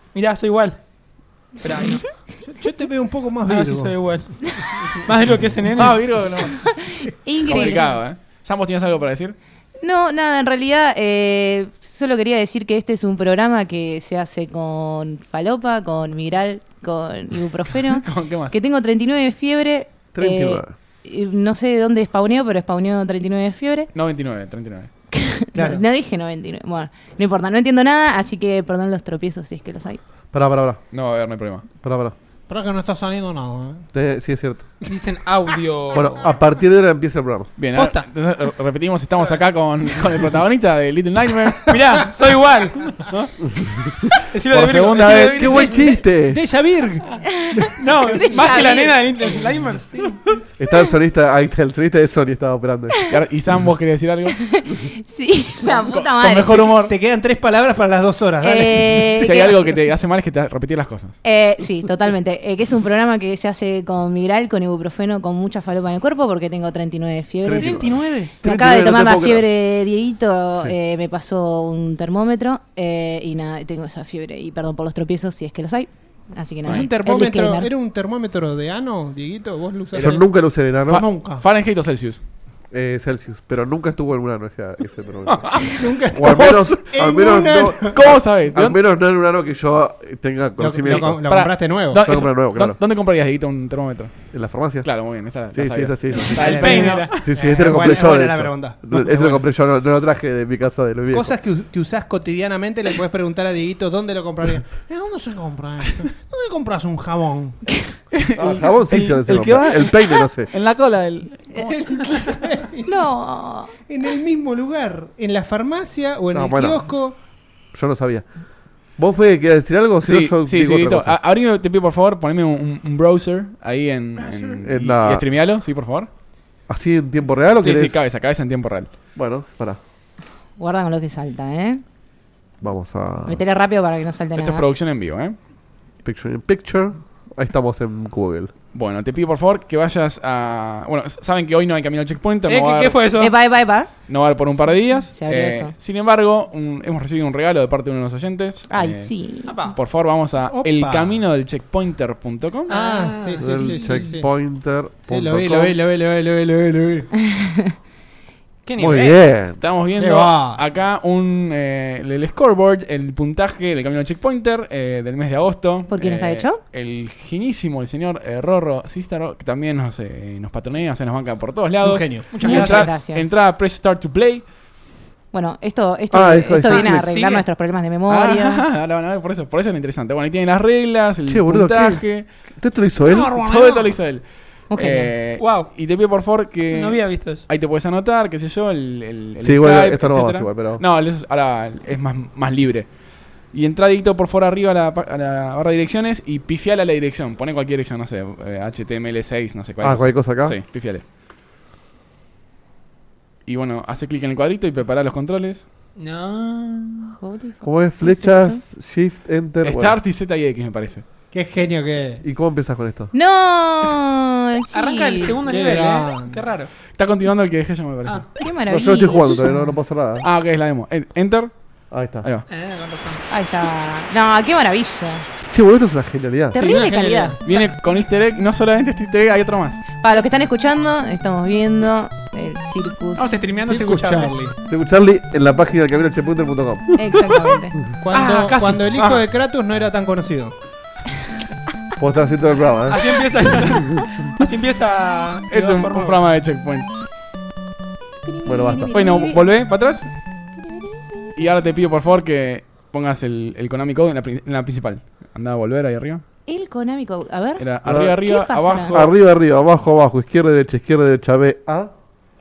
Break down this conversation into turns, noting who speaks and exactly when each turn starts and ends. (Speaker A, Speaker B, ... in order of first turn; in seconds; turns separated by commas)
Speaker A: 0.1-0.8, Speaker A: 1.6-2.1, Speaker B: 2.4-4.1, Speaker A: 3.5-6.0, Speaker C: 5.8-6.8, Speaker B: 5.8-7.1, Speaker D: 6.7-7.8, Speaker C: 7.5-9.3, Speaker D: 9.8-23.9, Speaker C: 17.8-18.5, Speaker E: 20.1-20.7, Speaker C: 23.9-24.9, Speaker D: 25.1-30.0, Speaker B: 25.5-25.8, Speaker E: 30.3-30.8, Speaker C: 30.9-31.6, Speaker E: 31.8-32.1, Speaker B: 32.5-33.9, Speaker E: 33.9-34.7, Speaker A: 34.9-36.2, Speaker E: 35.9-37.5, Speaker C: 37.6-41.7, Speaker A: 37.7-38.1, Speaker A: 41.7-43.3, Speaker E: 43.4-44.1, Speaker A: 44.3-46.0, Speaker C: 44.5-45.6, Speaker E: 45.0-46.4, Speaker B: 46.1-48.6, Speaker D: 47.6-49.0, Speaker A: 47.8-50.2, Speaker E: 50.6-53.0, Speaker C: 53.1-54.6, Speaker D: 54.4-56.6, Speaker C: 56.1-56.9, Speaker B: 56.6-59.1, Speaker D: 58.4-59.8, Speaker C: 59.1-61.2, Speaker D: 61.2-67.9, Speaker E: 67.4-69.5, Speaker B: 67.6-68.3, Speaker D: 68.4-77.7, Speaker C: 76.7-76.9, Speaker B: 76.7-80.2, Speaker E: 79.9-81.1, Speaker C: 79.9-82.2, Speaker B: 80.9-81.4, Speaker E: 82.7-92.8, Speaker C: 85.2-86.8, Speaker B: 85.8-88.0, Speaker C: 87.9-88.8, Speaker B: 90.6-92.0, Speaker C: 90.8-94.2, Speaker E: 94.3-101.3, Speaker C: 94.8-97.2, Speaker B: 96.3-99.0, Speaker A: 96.4-97.3, Speaker C: 98.9-99.4, Speaker B: 101.1-107.8, Speaker C: 108.1-112.3, Speaker E: 108.4-110.5, Speaker D: 111.5-112.2, Speaker B: 111.9-112.9, Speaker D: 112.8-113.7, Speaker B: 113.9-117.2, Speaker E: 116.3-116.9, Speaker E: 117.7-118.3, Speaker E: 119.0-121.2, Speaker C: 120.0-126.1, Speaker E: 124.5-125.3, Speaker E: 126.7-128.0, Speaker C: 127.6-128.9, Speaker E: 129.1-129.8, Speaker D: 130.6-131.8, Speaker E: 132.6-133.4, Speaker D: 133.2-134.7, Speaker C: 134.3-135.3, Speaker E: 136.0-138.5, Speaker C: 138.7-143.0, Speaker A: 142.5-143.3, Speaker D: 143.2-143.9, Speaker C: 144.1-149.1, Speaker D: 145.1-145.7, Speaker D: 148.7-149.6, Speaker A: 149.4-149.8, Speaker C: 149.7-152.7, Speaker B: 150.4-151.2, Speaker A: 152.7-154.0, Speaker B: 152.7-154.3, Speaker E: 153.4-155.8, Speaker B: 155.1-157.1, Speaker D: 157.3-157.7, Speaker A: 158.6-159.2, Speaker E: 158.8-159.6, Speaker C: 159.6-174.5, Speaker B: 159.9-160.6, Speaker D: 165.9-166.6, Speaker B: 171.8-172.4, Speaker A: 172.3-172.9, Speaker D: 172.4-173.2, Speaker D: 175.3-178.6, Speaker E: 176.1-177.3, Speaker A: 176.7-177.4, Speaker C: 178.1-182.3, Speaker E: 181.2-183.4, Speaker B: 183.1-183.9, Speaker C: 183.3-192.9, Speaker D: 184.7-185.1, Speaker A: 185.4-185.7, Speaker A: 186.7-187.4, Speaker E: 189.4-190.8, Speaker C: 193.5-201.0, Speaker E: 199.8-200.6, Speaker C: 203.4-205.6, Speaker A: 205.9-207.1, Speaker D: 207.1-208.6, Speaker E: 207.6-210.0, Speaker C: 209.6-211.0, Speaker B: 211.3-212.2, Speaker E: 212.2-213.1, Speaker D: 213.1-215.3, Speaker A: 214.7-216.7, Speaker B: 215.4-216.5, Speaker C: 216.9-218.3, Speaker D: 218.4-219.4, Speaker E: 218.7-220.2, Speaker C: 220.2-221.5, Speaker E: 221.9-222.3, Speaker A: 222.5-223.2, Speaker D: 223.3-225.2, Speaker E: 225.5-226.6, Speaker D: 226.5-227.4, Speaker C: 226.6-229.8, Speaker B: 226.7-227.4, Speaker D: 230.0-233.2, Speaker A: 233.2-234.3, Speaker B: 233.6-234.6, Speaker E: 234.7-237.2, Speaker D: 237.0-237.7, Speaker B: 238.0-240.5, Speaker A: 238.1-238.9, Speaker E: 242.0-243.7, Speaker A: 242.9-246.2, Speaker C: 245.5-246.9, Speaker D: 248.2-249.4, Speaker E: 248.4-248.9, Speaker C: 248.9-250.1, Speaker D: 250.6-251.3, Speaker C: 251.3-256.2, Speaker D: 256.5-257.6, Speaker C: 257.6-259.1, Speaker E: 257.9-258.2, Speaker D: 258.2-258.9, Speaker E: 258.9-261.9